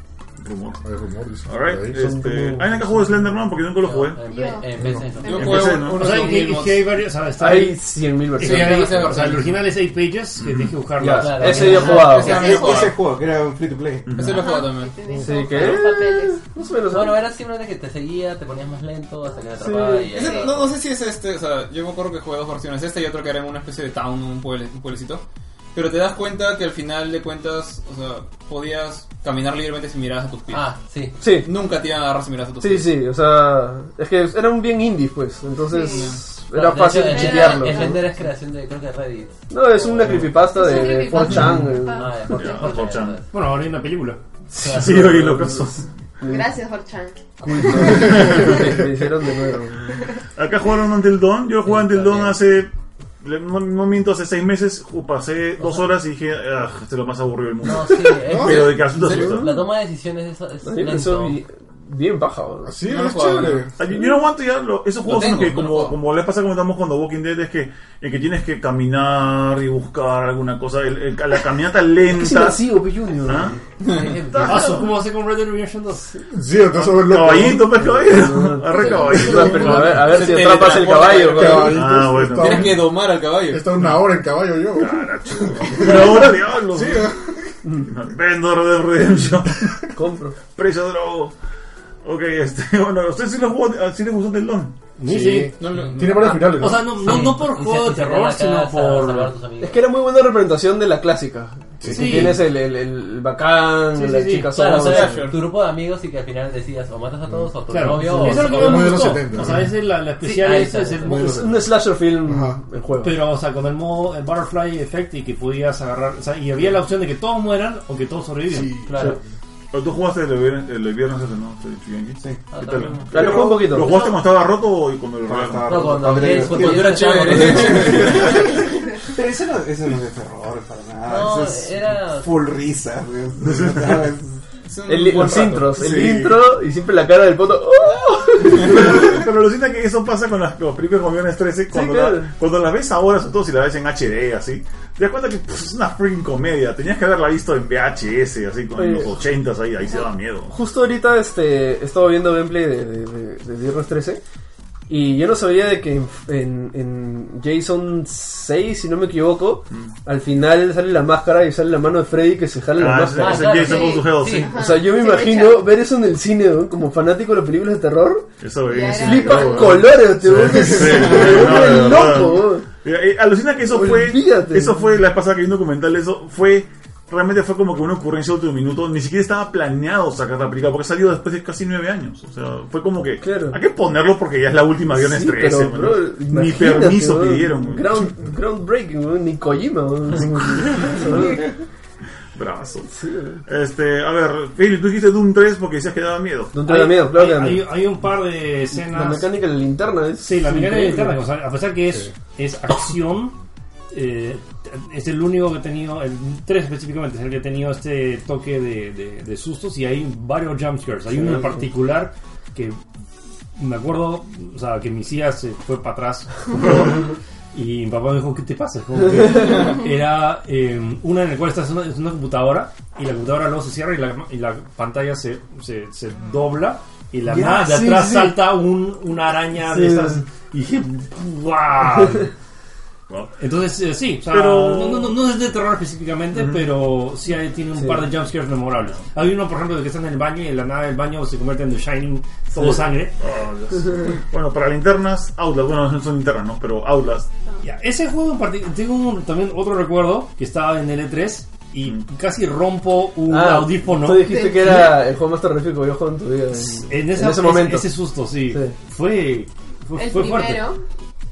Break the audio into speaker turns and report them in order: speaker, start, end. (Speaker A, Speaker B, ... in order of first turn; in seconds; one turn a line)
Speaker A: 0.4-0.8
Speaker B: 0.8-2.0
Speaker A: 1.5-4.2
Speaker C: 1.9-3.3
Speaker D: 3.8-5.8
Speaker E: 4.2-4.7
Speaker B: 4.8-5.1
Speaker F: 5.2-6.9
Speaker E: 5.2-5.5
Speaker A: 5.2-6.0
Speaker G: 5.9-11.9
Speaker C: 7.4-9.1
Speaker F: 8.4-9.5
Speaker A: 10.4-10.7
Speaker C: 11.0-12.5
Speaker D: 11.1-12.5
Speaker F: 11.6-12.9
Speaker E: 12.1-12.9
Speaker H: 12.2-14.1
Speaker A: 14.1-14.6
Speaker F: 14.2-15.0
Speaker E: 14.3-16.4
Speaker C: 15.2-17.2
Speaker D: 16.9-20.7
Speaker C: 19.6-20.1
Speaker F: 20.1-30.7
Speaker E: 20.2-20.6
Speaker D: 30.5-31.2
Speaker C: 31.2-31.5
Speaker F: 31.4-33.0
Speaker C: 32.6-38.1
Speaker E: 35.7-36.2
Speaker D: 36.5-40.2
Speaker E: 37.0-38.1
Speaker C: 39.5-42.8
Speaker A: 40.0-40.3
Speaker E: 40.4-42.7
Speaker D: 41.1-43.3
Speaker A: 41.2-41.8
Speaker A: 42.3-43.2
Speaker G: 43.3-44.2
Speaker C: 44.5-46.5
Speaker D: 44.6-45.1
Speaker A: 44.6-45.9
Speaker E: 46.2-47.2
Speaker C: 47.4-50.0
Speaker A: 47.9-48.6
Speaker B: 48.0-48.2
Speaker A: 50.4-59.6
Speaker D: 51.6-52.4
Speaker D: 57.6-61.4
Speaker B: 58.3-58.6
Speaker C: 58.9-59.6
Speaker C: 60.6-62.8
Speaker B: 62.6-63.8
Speaker F: 62.8-63.7
Speaker A: 63.8-72.7
Speaker F: 65.0-66.0
Speaker C: 72.1-73.6
Speaker A: 73.2-73.6
Speaker D: 73.4-74.9
Speaker F: 73.8-74.3
Speaker A: 74.3-74.8
Speaker G: 74.4-76.2
Speaker B: 76.3-78.0
Speaker A: 76.8-80.1
Speaker C: 77.4-81.8
Speaker D: 78.8-79.8
Speaker F: 79.6-81.8
Speaker B: 81.0-87.5
Speaker A: 81.5-82.8
Speaker F: 82.3-83.7
Speaker A: 84.8-87.1
Speaker C: 87.6-87.9
Speaker A: 87.9-89.7
Speaker C: 90.0-90.4
Speaker A: 90.6-91.3
Speaker A: 92.0-94.8
Speaker G: 95.0-95.5
Speaker B: 95.0-97.0
Speaker F: 95.6-96.5
Speaker D: 95.8-99.8
Speaker G: 96.5-99.4
Speaker C: 99.6-105.3
Speaker B: 101.8-102.5
Speaker G: 101.9-102.4
Speaker G: 103.9-105.0
Speaker D: 104.4-109.5
Speaker F: 104.8-105.5
Speaker B: 107.3-109.7
Speaker G: 107.7-111.6
Speaker D: 110.2-111.3
Speaker B: 111.0-112.6
Speaker C: 111.1-113.2
Speaker G: 113.0-118.8
Speaker B: 118.5-119.2
Speaker D: 118.8-119.2
Speaker A: 119.7-126.0
Speaker D: 122.5-123.8
Speaker C: 123.1-124.0
Speaker H: 125.3-134.4
Speaker D: 125.7-128.3
Speaker F: 126.4-128.4
Speaker D: 131.1-132.3
Speaker F: 134.7-135.7
Speaker C: 134.9-138.9
Speaker H: 135.2-136.3
Speaker A: 135.4-136.3
Speaker A: 138.5-150.5
Speaker C: 141.7-142.3
Speaker C: 148.8-149.2
Speaker C: 150.5-154.2
Speaker C: 154.9-163.6
Speaker A: 162.8-164.5
Speaker D: 163.2-164.5
Speaker E: 163.6-165.7
Speaker C: 164.5-168.3
Speaker A: 168.4-188.1
Speaker E: 168.7-169.8
Speaker C: 168.9-172.7
Speaker B: 169.7-171.4
Speaker C: 173.7-174.8
Speaker C: 183.2-183.6
Speaker C: 184.9-191.5
Speaker A: 192.3-192.9
Speaker C: 192.9-193.4
Speaker A: 193.5-196.6
Speaker C: 196.5-197.7
Speaker G: 196.6-199.3
Speaker C: 198.7-201.2
Speaker G: 200.2-203.4
Speaker G: 203.9-212.8
Speaker C: 211.2-211.6
Speaker G: 213.6-232.3
Speaker C: 227.3-228.4
Speaker C: 229.7-230.2
Speaker A: 233.1-233.3
Speaker G: 233.4-243.1
Speaker A: 234.3-235.2
Speaker C: 237.8-238.1
Speaker A: 242.5-247.3
Speaker G: 247.6-254.7
Speaker C: 253.3-258.0
Speaker E: 254.3-255.0
Speaker G: 256.6-260.8
Speaker C: 258.5-258.8
Speaker E: 260.0-260.8